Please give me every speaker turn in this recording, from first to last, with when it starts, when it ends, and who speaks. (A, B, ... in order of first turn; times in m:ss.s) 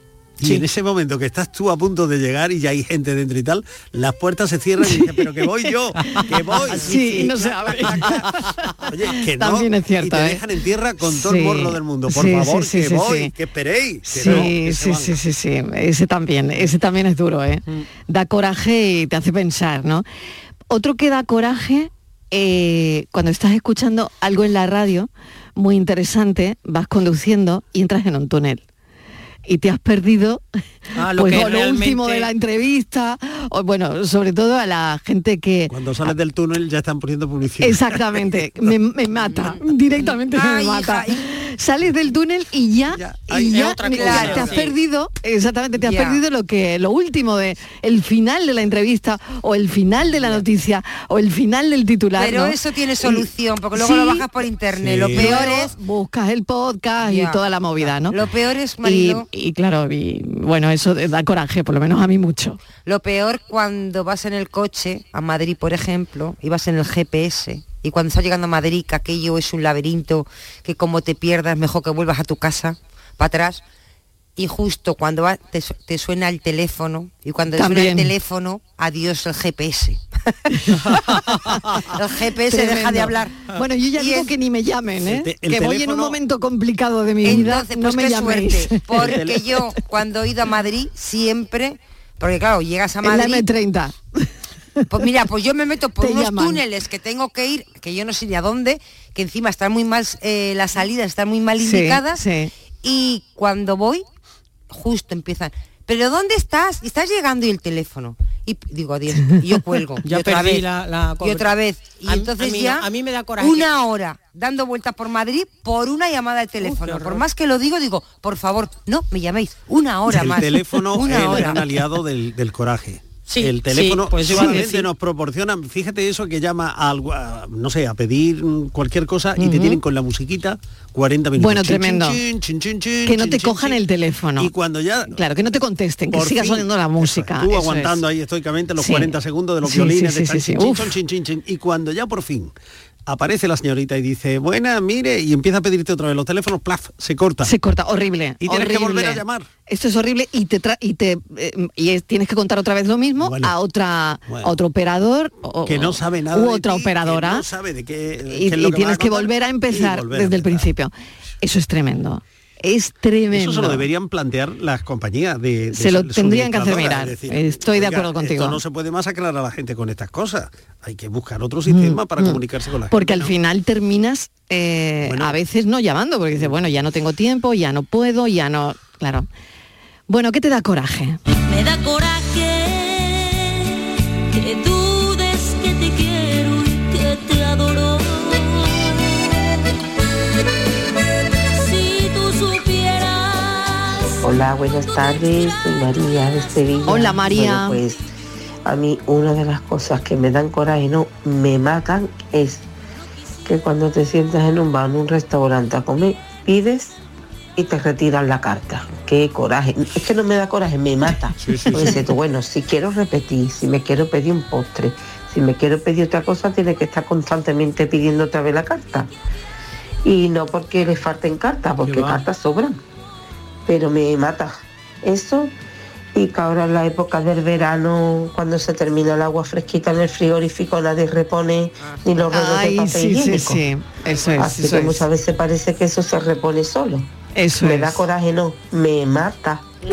0:00.4-0:08.3 A
0:04.8-0:05.7 B
0:06.2-0:08.7 B
0:08.8-0:15.2 A
0:09.4-0:10.4 B
0:11.0-0:13.3 B
0:14.1-0:20.0 B
0:20.7-0:28.6 B
0:29.4-0:30.4 B
0:31.0-0:32.3 C
0:31.1-0:35.7 B
0:35.7-0:38.2 A
0:37.6-0:54.2 B
0:39.2-0:39.6 D
0:40.3-0:41.2 D
0:42.9-0:44.5 A
0:43.5-0:44.7 C
0:44.0-0:44.5 D
0:45.8-0:46.2 D
0:52.2-0:55.7 D
0:54.8-0:55.5 A
0:55.1-0:58.2 B
0:57.0-0:59.2 D
0:58.8-1:02.6 B
1:02.8-1:13.6 D
1:14.4-1:20.0 D
1:17.6-1:18.1 B
1:20.6-1:20.9 B
1:21.9-1:23.4 D
1:22.5-1:29.2 B
1:24.0-1:24.3 D
1:25.0-1:26.2 A
1:27.2-1:33.5 D
1:29.0-1:29.3 A
1:33.0-1:34.2 B
1:34.9-1:42.2 D
1:36.0-1:36.6 B
1:41.6-1:42.5 B
1:42.8-1:44.0 D
1:44.7-1:50.6 D
1:50.0-1:53.8 C
1:51.2-1:52.8 D
1:53.4-2:01.8 D
1:56.6-1:57.2 C
2:00.1-2:13.8 A
2:03.3-2:04.9 C
2:04.3-2:04.6 B
2:09.4-2:09.8 B
2:11.4-2:12.2 B
2:13.0-2:14.5 B
2:14.4-2:15.2 A
2:15.1-2:18.0 B
2:16.1-2:22.5 A
2:18.8-2:19.1 B
2:19.6-2:21.0 B
2:23.1-2:27.5 A
2:27.4-2:37.4 B
2:28.4-2:29.5 A
2:33.2-2:33.6 A
2:34.2-2:34.5 A
2:35.6-2:40.7 A
2:38.3-2:40.9 B
2:41.4-2:43.8 B
2:43.3-2:53.3 A
2:45.7-2:48.6 B
2:51.7-2:52.4 B
2:52.9-2:59.3 B
2:55.0-2:55.4 A
3:00.1-3:01.2 B
3:01.5-3:08.9 E
3:11.6-3:14.0 E
3:14.2-3:18.0 F
3:16.9-3:17.8 B
3:18.6-3:22.6 F
3:23.4-3:27.0 F
3:27.6-3:39.1 F
3:40.0-3:42.8 F
3:41.9-3:42.2 A
3:43.6-3:45.5 F
3:46.1-3:53.6 F
3:52.3-3:55.0 B
3:54.4-3:59.6 F
3:57.4-3:58.0 B